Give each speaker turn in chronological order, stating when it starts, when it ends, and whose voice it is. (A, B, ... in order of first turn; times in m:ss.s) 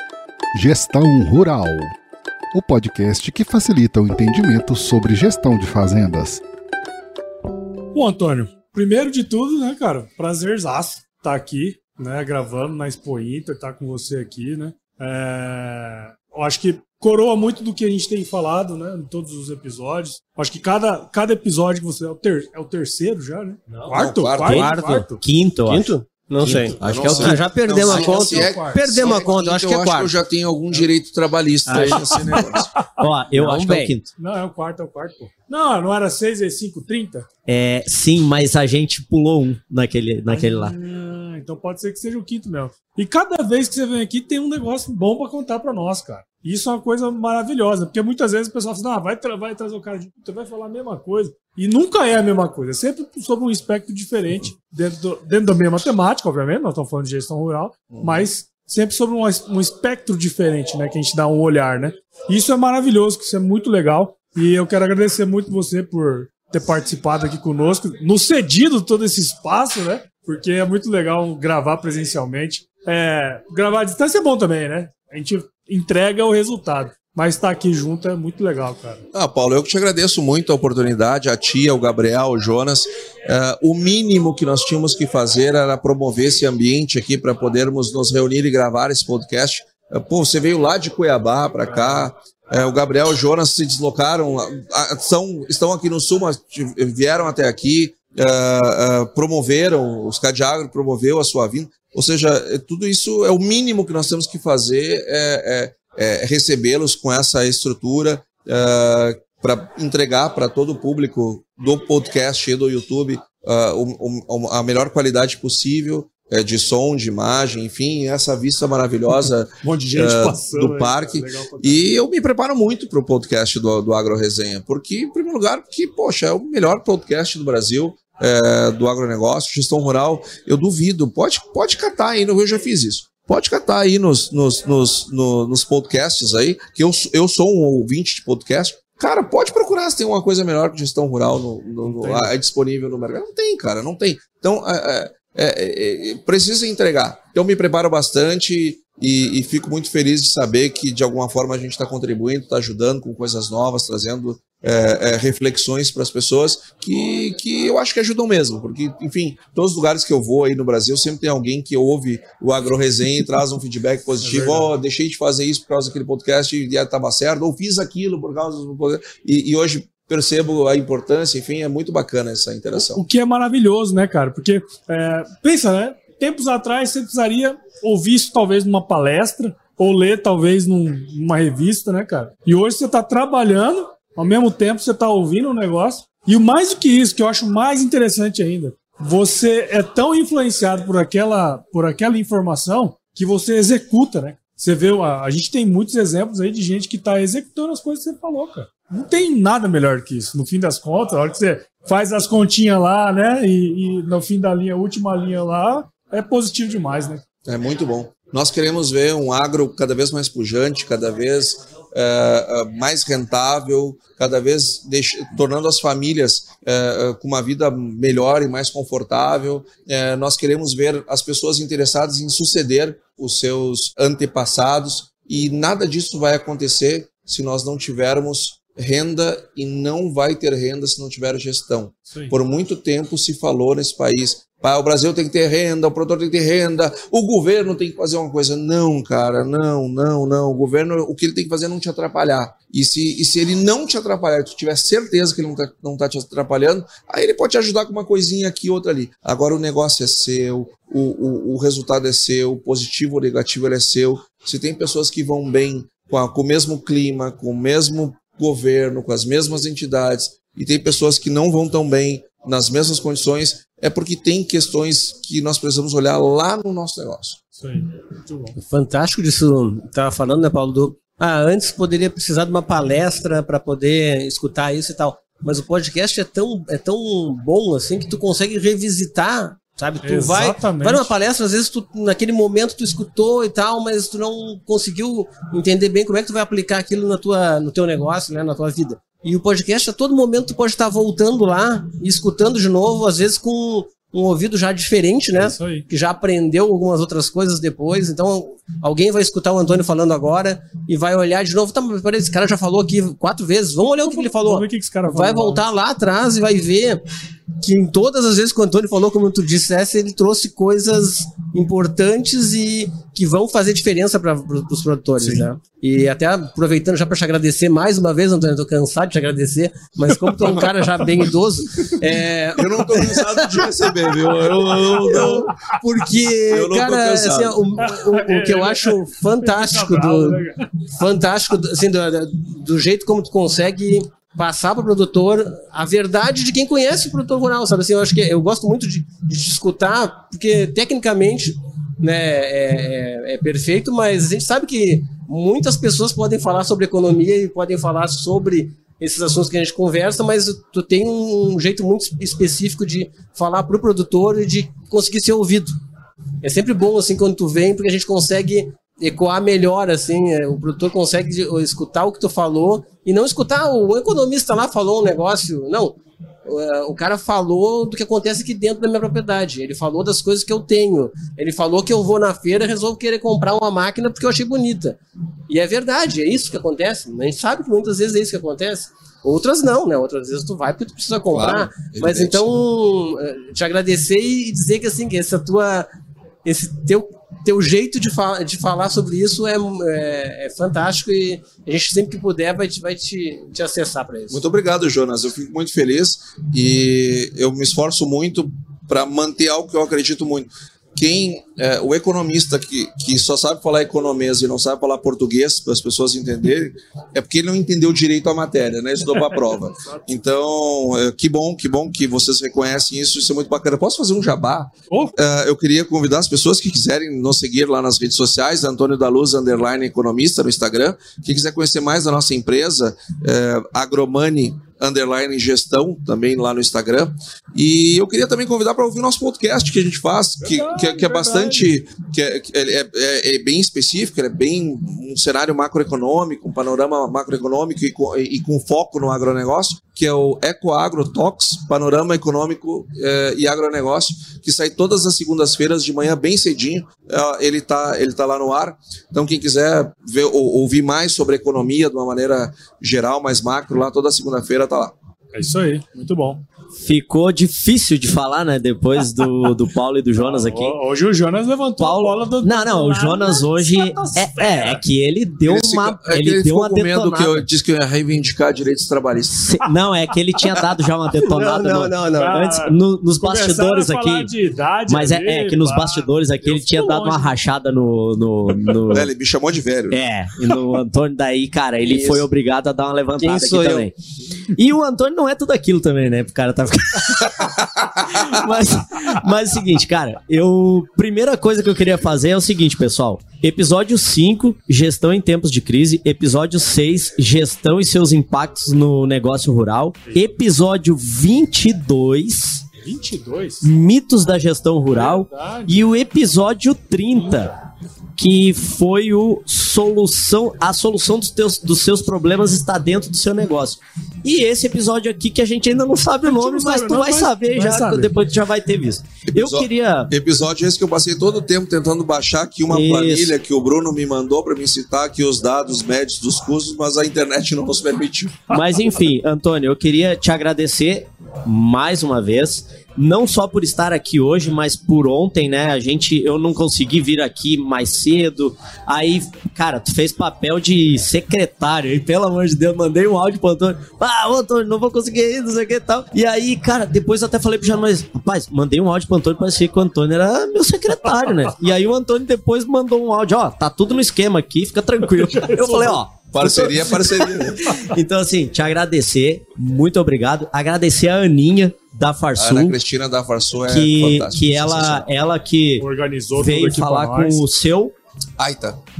0:00.5-0:01.9 A
0:02.5-0:06.4 A
0:07.9-0:25.2 B
0:24.0-0:24.7 C
0:24.3-0:27.5 D
0:25.7-0:30.1 E
0:26.5-0:26.7 B
0:26.8-0:32.7 C
0:27.8-0:29.3 B
0:31.7-0:32.4 D
0:31.7-0:32.5 E
0:32.1-0:32.8 B
0:33.0-0:34.1 D
0:33.3-0:34.0 E
0:34.2-0:37.3 B
0:37.5-0:40.8 D
0:40.3-1:19.0 B
0:57.9-0:58.3 C
1:19.1-2:53.0 C
1:59.6-2:01.9 B
2:21.8-2:22.3 B
2:44.2-2:44.7 B
2:52.8-3:27.2 B
3:27.5-4:27.4 C
4:27.6-4:28.6 B
4:28.6-5:07.0 E
4:40.0-4:41.1 B
4:55.3-4:55.9 B
5:04.0-5:05.6 B
5:07.6-5:23.7 E
5:20.3-5:20.7 B
5:22.6-5:25.5 C
5:24.7-5:55.8 E
5:26.5-5:27.6 C
5:27.8-5:30.7 B
5:56.4-6:25.9 E
6:21.3-6:22.5 C
6:26.4-6:34.4 E
6:34.3-7:34.9 C
6:54.9-6:55.2 B
7:10.4-7:11.7 B
7:35.3-7:36.4 B
7:36.8-7:40.8 D
7:40.2-7:44.8 B
7:41.8-7:47.5 D
7:45.5-7:49.4 C
7:49.3-7:54.3 D
7:51.2-7:52.4 E
7:52.2-7:57.3 B
7:54.9-7:59.1 D
7:58.9-8:00.0 C
7:59.9-8:04.0 D
8:01.8-8:02.2 E
8:03.2-8:03.9 E
8:04.5-8:22.7 D
8:07.2-8:08.4 C
8:22.8-8:23.7 B
8:23.6-8:27.5 D
8:24.9-8:25.8 B
8:27.2-8:27.5 B
8:28.2-8:40.1 D
8:36.2-8:38.1 B
8:39.3-8:48.5 C
8:42.7-8:43.3 D
8:48.5-9:22.8 D
9:15.3-9:16.0 B
9:16.3-9:17.8 C
9:22.4-9:25.1 C
9:23.7-9:27.9 D
9:25.8-9:27.4 B
9:28.4-9:28.8 C